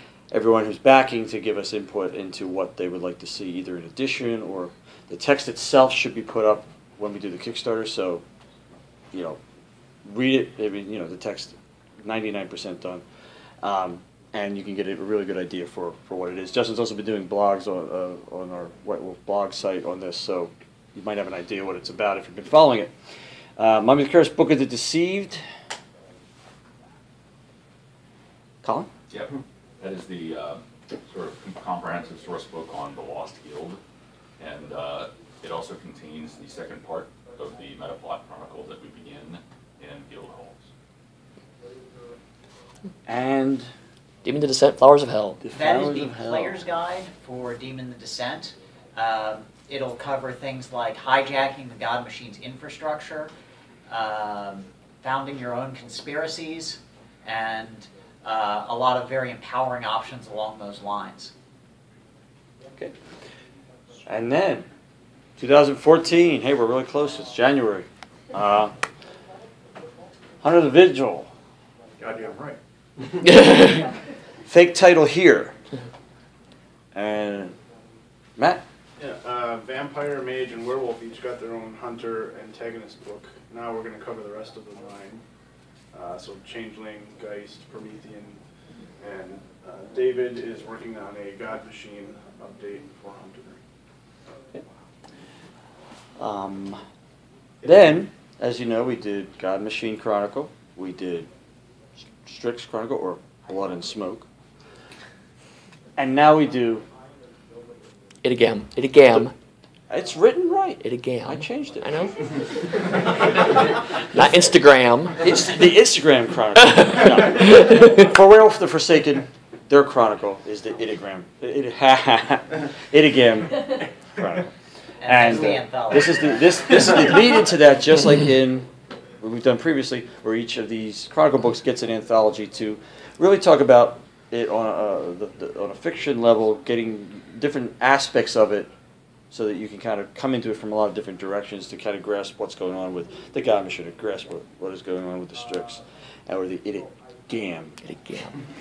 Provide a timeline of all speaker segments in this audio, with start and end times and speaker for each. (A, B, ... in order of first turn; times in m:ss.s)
0:00.3-0:08.2 A
0:09.1-0:09.4 A
0:10.0-0:13.0 A
0:13.6-0:22.9 A
0:23.6-0:25.4 A
0:28.6-0:28.9 A
0:29.1-0:33.8 B
0:34.4-0:40.6 B
0:43.1-0:43.7 A
0:44.2-0:45.4 C
0:45.4-0:46.6 A
0:45.5-0:53.3 D
0:53.9-1:01.3 D
1:04.1-1:04.7 A
1:05.4-1:08.8 A
1:10.4-1:11.3 A
1:12.0-1:12.6 E
1:13.2-1:13.9 C
1:14.5-1:15.6 A
1:16.9-1:17.6 A
1:18.4-1:18.6 A
1:19.0-1:25.2 E
1:25.9-1:28.4 E
1:29.0-1:33.6 E
1:36.2-1:36.8 A
1:37.6-1:41.3 A
1:42.2-1:44.3 A
1:46.0-1:46.9 A
1:48.2-1:49.3 C
1:49.9-1:52.1 A
1:50.8-1:52.3 C
1:54.1-1:55.5 C
1:55.2-2:04.5 A
1:56.6-1:58.1 C
2:05.0-2:06.5 D
2:05.0-2:08.7 A
2:09.2-2:18.7 A
2:19.3-2:27.8 A
2:27.8-2:28.3 C